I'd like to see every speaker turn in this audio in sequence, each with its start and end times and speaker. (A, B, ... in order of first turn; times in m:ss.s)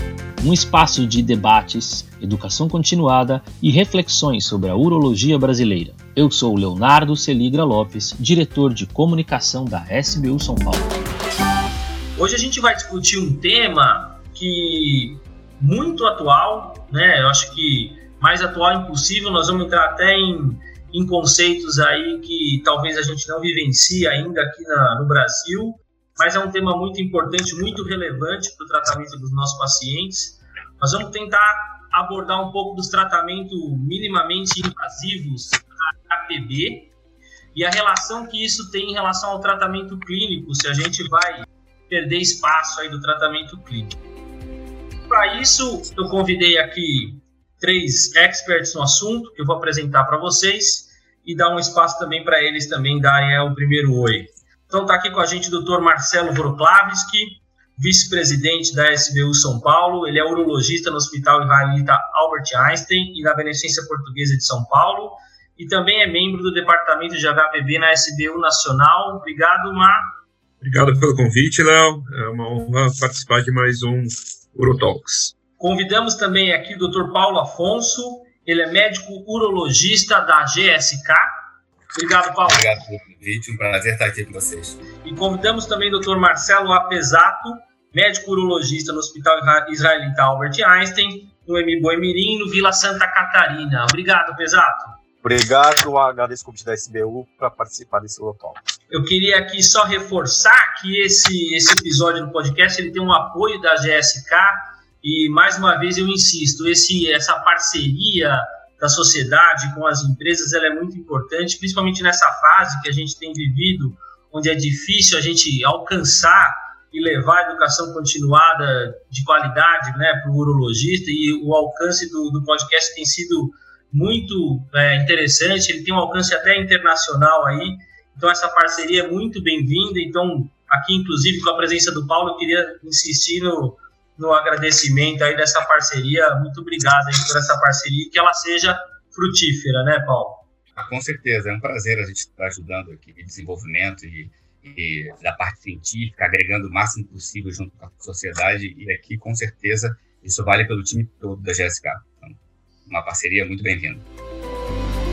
0:00.4-0:11.0 A
0:12.2-0:36.9 B
0:37.5-0:44.0 B
0:45.1-1:10.1 B
1:10.6-1:15.4 C
1:15.6-1:21.3 B
1:21.9-1:22.7 B
1:22.5-1:24.8 D
1:25.0-1:35.0 B
1:35.2-1:38.6 E
1:38.9-2:20.4 B
2:20.8-2:32.4 D
2:32.9-2:34.0 D